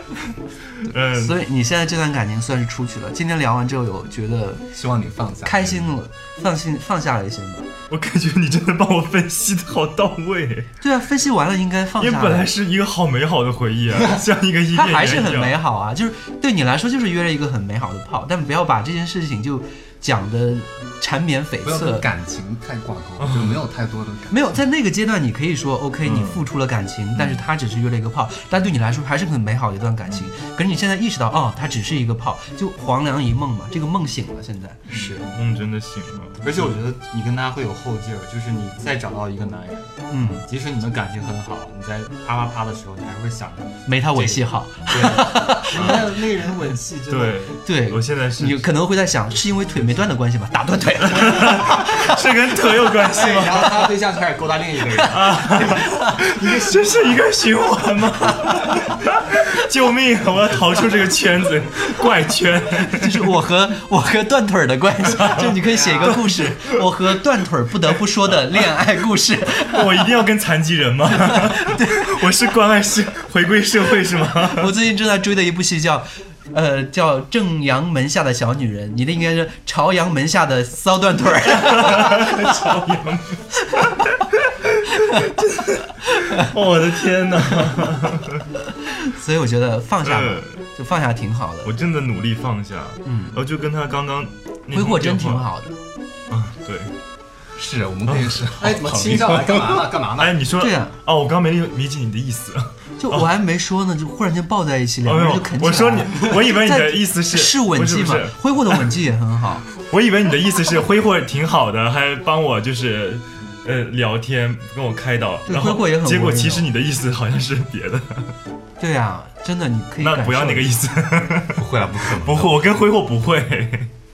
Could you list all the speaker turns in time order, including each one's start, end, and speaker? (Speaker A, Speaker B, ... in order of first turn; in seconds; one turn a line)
Speaker A: 0.8-1.4
Speaker B: 1.1-4.7
Speaker C: 4.7-5.9
Speaker B: 5.4-7.7
Speaker A: 7.9-10.7
Speaker B: 10.8-12.5
Speaker A: 12.0-15.6
Speaker B: 14.7-22.1
Speaker C: 21.6-24.6
Speaker A: 23.2-23.6
Speaker B: 24.3-34.9
Speaker A: 26.0-26.4
Speaker D: 34.9-35.3
Speaker A: 34.9-36.8
Speaker D: 36.4-47.5
Speaker B: 40.1-40.4
Speaker B: 43.9-46.0
Speaker A: 45.7-46.1
Speaker A: 47.1-48.7
Speaker B: 47.6-52.1
Speaker A: 51.1-53.9
Speaker D: 53.0-57.1
Speaker A: 55.0-63.2
Speaker B: 55.6-56.1
Speaker B: 62.8-69.8
Speaker A: 65.1-66.4
Speaker D: 65.6-66.2
Speaker A: 69.6-74.7
Speaker B: 71.2-72.1
Speaker B: 74.5-82.5
Speaker A: 81.6-88.4
Speaker B: 88.9-91.7
Speaker A: 90.0-90.5
Speaker A: 91.6-95.5
Speaker B: 93.0-93.3
Speaker B: 94.7-95.8
Speaker A: 96.3-96.9
Speaker C: 97.5-100.0
Speaker A: 98.1-98.4
Speaker D: 98.6-100.4
Speaker A: 100.2-103.3
Speaker B: 100.6-100.9
Speaker B: 103.0-109.6
Speaker A: 105.0-108.9
Speaker A: 109.8-118.3
Speaker B: 115.5-116.7
Speaker B: 118.8-120.8
Speaker A: 120.0-123.9
Speaker C: 121.5-122.7